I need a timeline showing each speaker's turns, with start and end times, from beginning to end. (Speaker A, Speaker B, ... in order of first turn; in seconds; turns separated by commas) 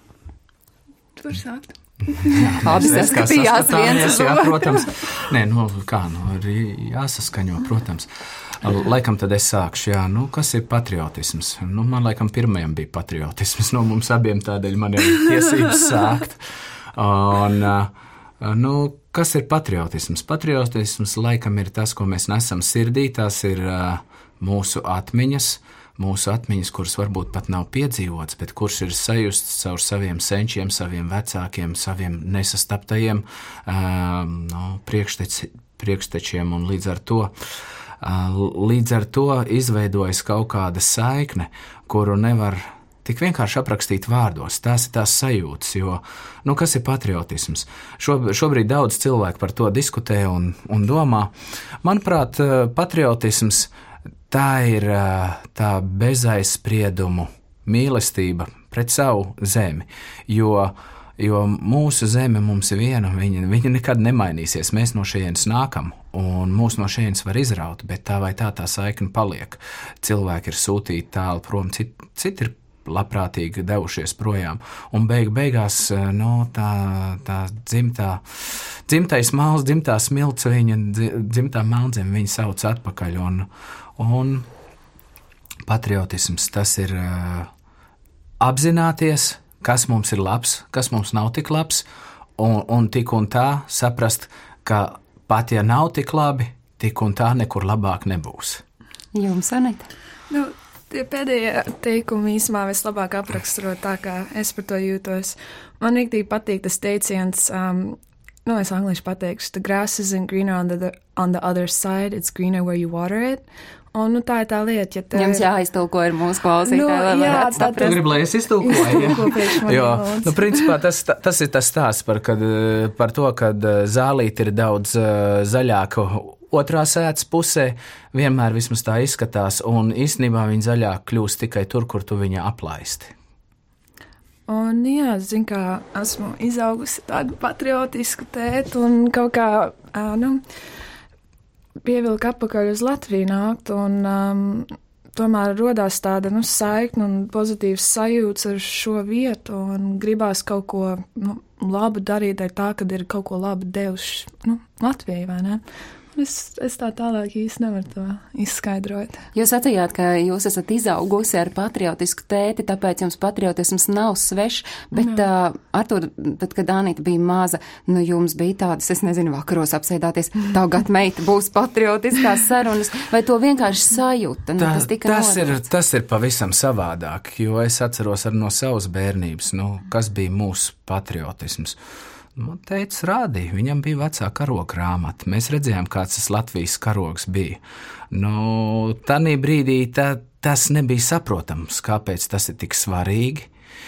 Speaker A: 1.2-4.3, Speaker B: 2.1-8.1, Speaker C: 2.6-4.6, Speaker B: 8.6-37.3, Speaker B: 38.0-51.3, Speaker B: 51.8-53.7, Speaker B: 54.3-84.5, Speaker B: 85.7-87.5, Speaker B: 88.4-91.9, Speaker B: 92.4-98.6, Speaker C: 99.1-99.9, Speaker A: 100.3-115.5, Speaker C: 115.1-118.0, Speaker A: 116.6-120.7, Speaker B: 117.6-133.1, Speaker A: 134.5-140.4, Speaker A: 141.8-155.6, Speaker A: 156.1-159.3, Speaker C: 159.3-175.6, Speaker B: 174.6-181.8, Speaker B: 182.3-193.5